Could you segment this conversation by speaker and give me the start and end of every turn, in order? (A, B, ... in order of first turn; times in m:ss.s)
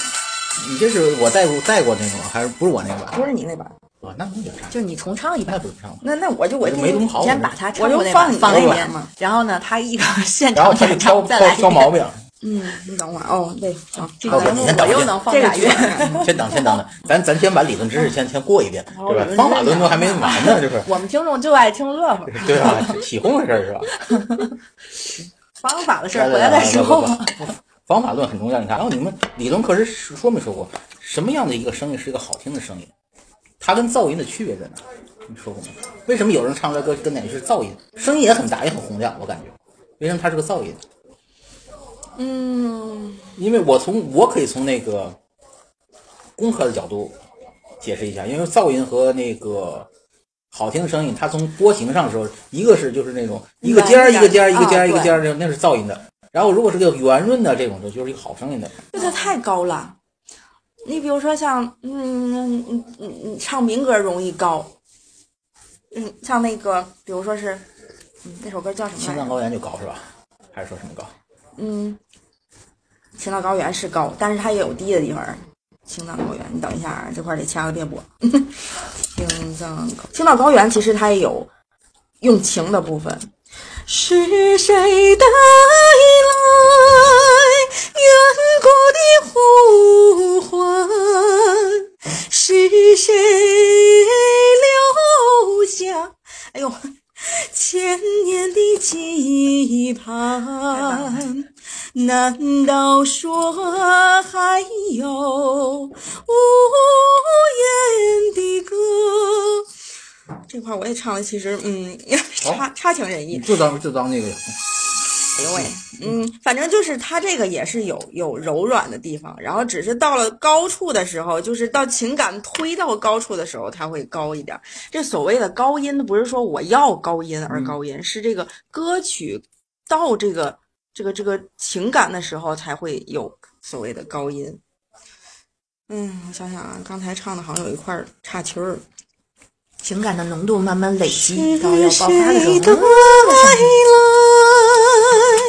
0:00.6-0:03.2 A
0:03.1-0:03.8 B
0:04.0-0:04.8 A
0:04.7-0:05.6 C
0:05.4-0:06.0 A
0:06.0-0:07.2 B
0:06.6-0:07.6 A
0:07.1-0:12.0 C
0:07.7-0:09.1 B
0:08.4-0:08.8 A
0:10.6-0:12.2 A
0:12.4-0:16.5 B
0:14.1-0:16.3 C
0:14.3-0:15.2 A
0:16.1-0:20.9 A
0:18.9-0:20.3 B
0:19.5-0:23.0 C
0:22.3-0:23.9 A
0:24.0-0:24.5 C
0:25.6-0:27.5 C
0:26.1-0:32.9 A
0:33.6-0:40.8 A
0:42.2-0:43.3 B
0:43.4-0:45.2 A
0:46.4-0:47.2 A
0:47.8-0:49.9 A
0:50.5-0:58.8 A
0:53.6-0:55.1 B
0:54.6-0:55.1 C
0:58.9-1:00.0 B
0:59.0-0:59.3 C
1:00.8-1:04.7 B
1:05.9-1:07.6 B
1:08.2-1:09.4 B
1:09.0-1:11.1 A
1:11.6-1:12.0 B
1:13.2-1:18.5 B
1:19.1-1:21.5 B
1:22.2-1:23.3 B
1:23.9-1:27.4 B
1:27.9-1:49.6 B
1:40.7-1:41.3 C
1:50.5-1:53.6 B
1:53.3-1:54.6 A
1:55.4-2:14.6 B
2:07.5-2:07.8 A
2:15.9-2:18.8 B
2:19.8-2:23.8 C
2:21.1-2:24.9 B